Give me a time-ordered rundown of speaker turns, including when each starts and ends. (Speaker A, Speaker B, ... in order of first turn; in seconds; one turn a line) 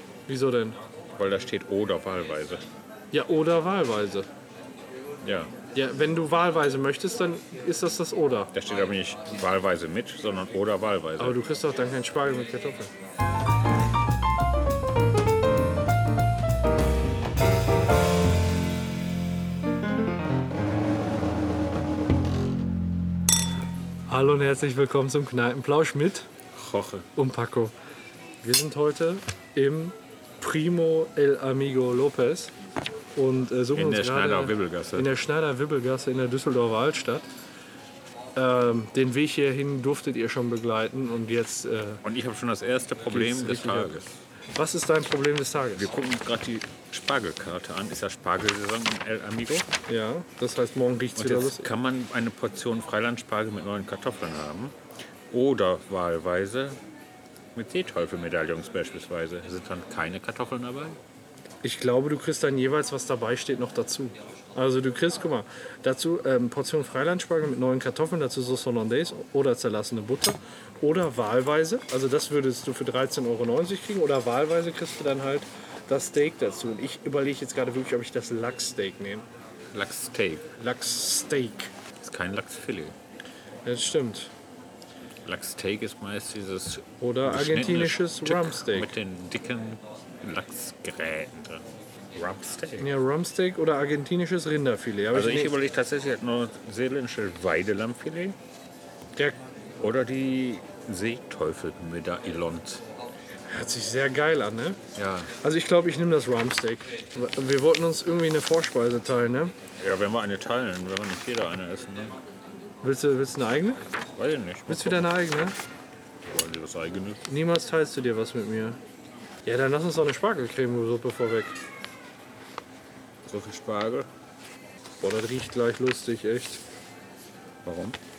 Speaker A: 0.3-0.8
Speaker B: 1.2-2.6
Speaker A: 3.1-4.3
Speaker B: 5.2-5.5
Speaker A: 5.7-8.5
Speaker B: 8.5-11.4
Speaker A: 11.2-12.9
Speaker A: 24.1-26.3
Speaker B: 26.5-27.1
Speaker A: 27.1-27.7
Speaker A: 28.4-32.5
Speaker A: 33.1-37.2
Speaker B: 33.7-35.1
Speaker A: 38.3-42.0
Speaker B: 42.0-44.2
Speaker A: 43.1-44.0
Speaker A: 44.5-45.9
Speaker B: 45.8-49.6
Speaker A: 49.9-51.7
Speaker B: 51.1-54.7
Speaker B: 55.3-56.8
Speaker B: 57.5-61.0
Speaker A: 61.6-79.2
Speaker B: 79.7-80.5
Speaker A: 80.6-81.7
Speaker B: 82.0-82.9
Speaker A: 83.6-84.3
Speaker B: 85.2-91.6
Speaker A: 87.0-88.9
Speaker B: 92.1-92.9
Speaker A: 92.8-95.5
Speaker B: 95.1-98.3
Speaker B: 99.8-102.8
Speaker A: 103.5-104.8
Speaker B: 104.9-105.3
Speaker A: 105.3-109.5
Speaker B: 109.8-112.2
Speaker A: 112.8-113.8
Speaker B: 114.2-115.1
Speaker A: 114.7-115.5
Speaker B: 116.2-117.2
Speaker A: 117.3-118.8
Speaker A: 119.4-121.5
Speaker B: 123.2-124.1
Speaker A: 125.0-126.6
Speaker B: 127.6-128.0